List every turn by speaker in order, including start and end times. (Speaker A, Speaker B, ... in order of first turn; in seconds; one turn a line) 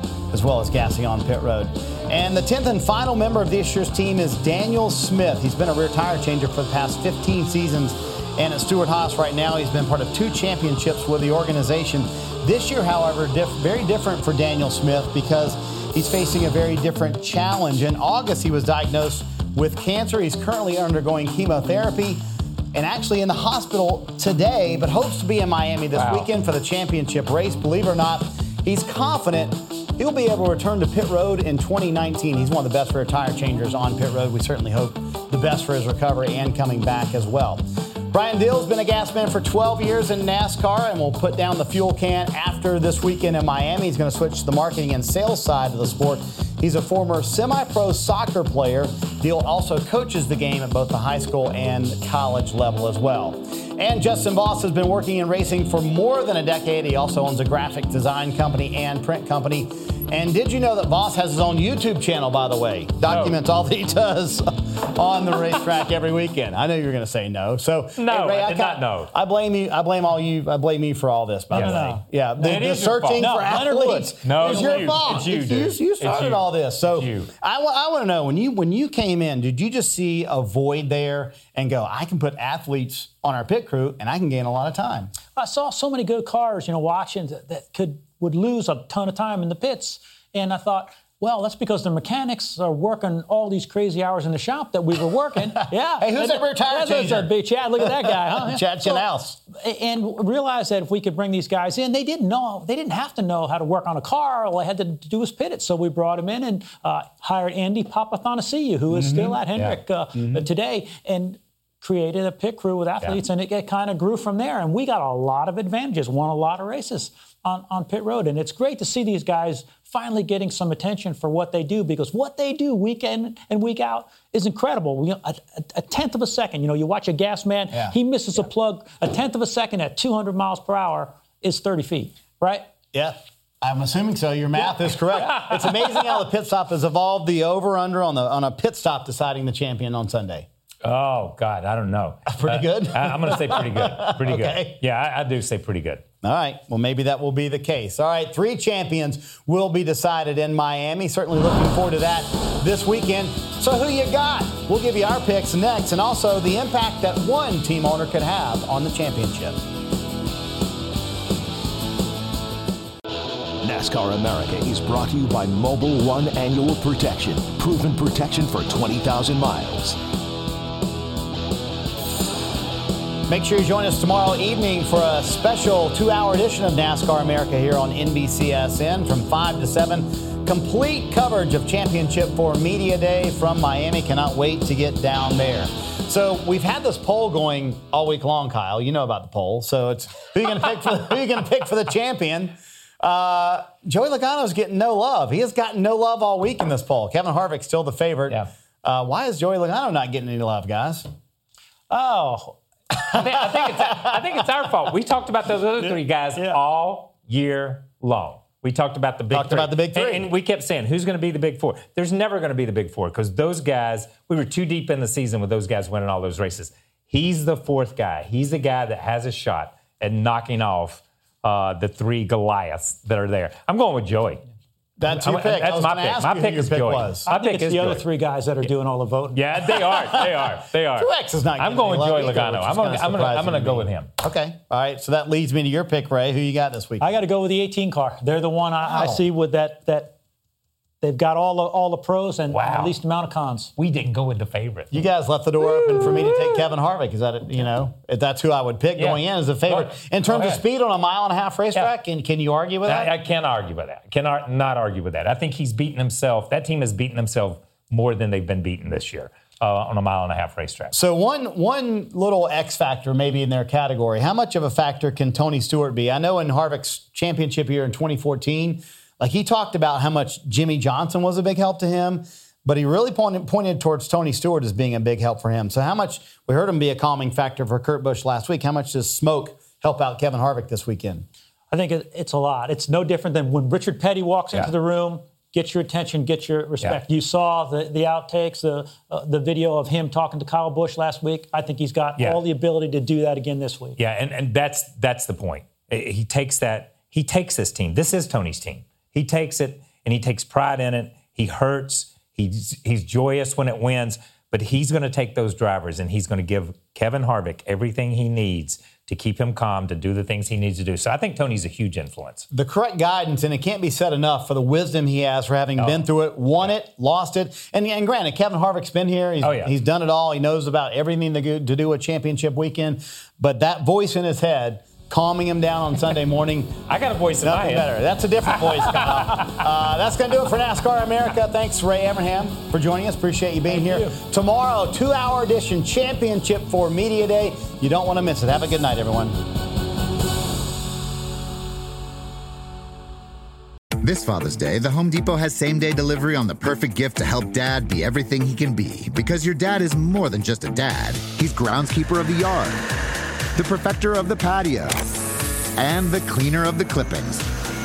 Speaker A: 0.3-22.2
Speaker A: 22.7-85.1
Speaker B: 25.9-26.3
Speaker B: 63.1-63.4
Speaker B: 68.0-69.1
Speaker C: 71.5-72.6
Speaker B: 71.5-71.9
Speaker B: 72.4-73.3
Speaker C: 73.2-75.1
Speaker B: 74.2-77.3
Speaker C: 85.3-132.6
Speaker A: 96.0-99.4
Speaker A: 108.9-109.4
Speaker A: 127.7-128.0
Speaker A: 132.9-140.5
Speaker B: 140.8-146.0
Speaker A: 142.3-144.8
Speaker A: 146.2-159.6
Speaker D: 163.6-170.0
Speaker A: 173.3-201.1
Speaker C: 201.9-202.6
Speaker B: 203.1-224.4
Speaker C: 205.8-206.6
Speaker A: 209.3-210.3
Speaker A: 225.0-227.2
Speaker B: 225.1-228.0
Speaker C: 227.3-229.4
Speaker B: 229.3-234.1
Speaker A: 229.8-237.1
Speaker C: 237.0-240.2
Speaker A: 238.9-239.2
Speaker C: 241.0-243.7
Speaker B: 242.5-242.9
Speaker B: 243.8-245.0
Speaker A: 244.9-253.1
Speaker B: 249.0-250.6
Speaker B: 252.8-260.9
Speaker A: 260.9-281.2
Speaker C: 281.7-294.0
Speaker B: 294.0-312.4
Speaker A: 312.5-326.8
Speaker B: 315.8-316.1
Speaker B: 319.4-319.7
Speaker B: 326.9-327.9
Speaker A: 327.4-339.4
Speaker B: 328.6-329.5
Speaker C: 333.8-334.1
Speaker E: 344.0-352.9
Speaker E: 353.5-355.0
Speaker E: 355.8-357.5